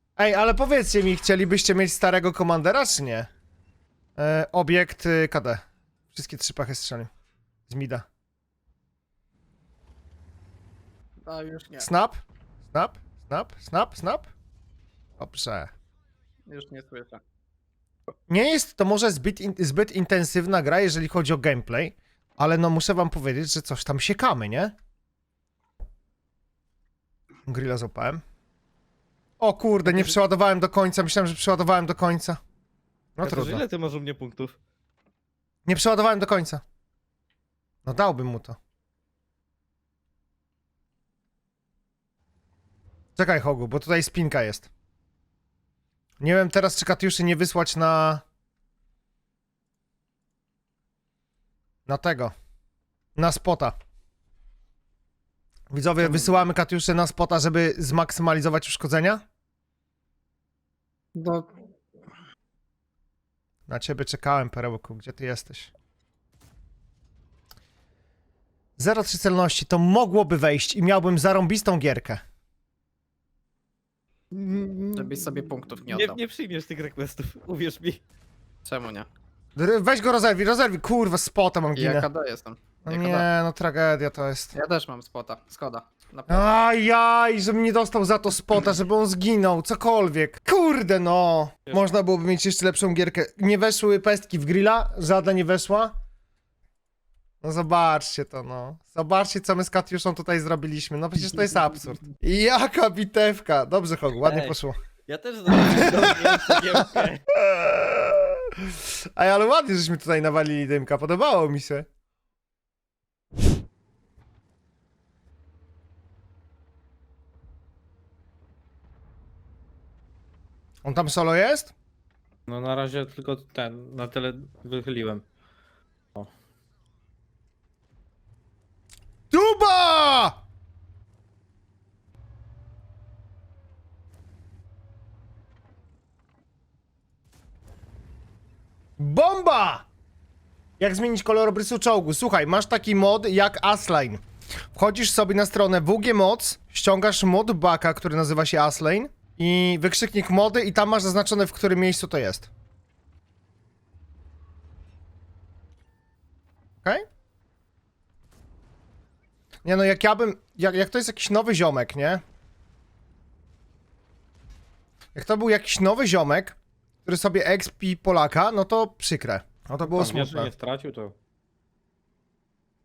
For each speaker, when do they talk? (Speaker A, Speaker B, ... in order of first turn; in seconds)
Speaker A: 0.2-3.3, 4.2-5.6, 6.1-7.1, 7.7-8.1, 11.8-14.3, 15.2-15.7, 18.3-24.7, 27.5-28.2, 29.4-32.4, 33.2-33.6, 35.7-36.6, 37.9-38.6, 43.2-44.7, 46.2-48.2, 51.9-52.3, 53.2-53.8, 55.7-59.2, 63.7-65.7, 68.8-72.2, 79.6-82.1, 82.8-84.5, 86.3-96.0, 97.4-104.8, 105.5-111.9, 120.8-121.7, 129.3-130.4, 139.0-139.9, 140.8-144.2, 144.7-152.5, 159.7-162.2, 165.2-170.5
Speaker B: 11.3-11.9, 16.5-17.2, 56.0-56.3, 61.2-61.5, 74.9-76.2, 78.7-79.1, 81.8-83.3, 84.5-86.5
Speaker C: 29.9-30.1, 33.2-34.5, 74.3-75.0, 75.8-78.0, 104.2-104.6, 105.1-107.2, 122.5-125.2, 169.9-171.2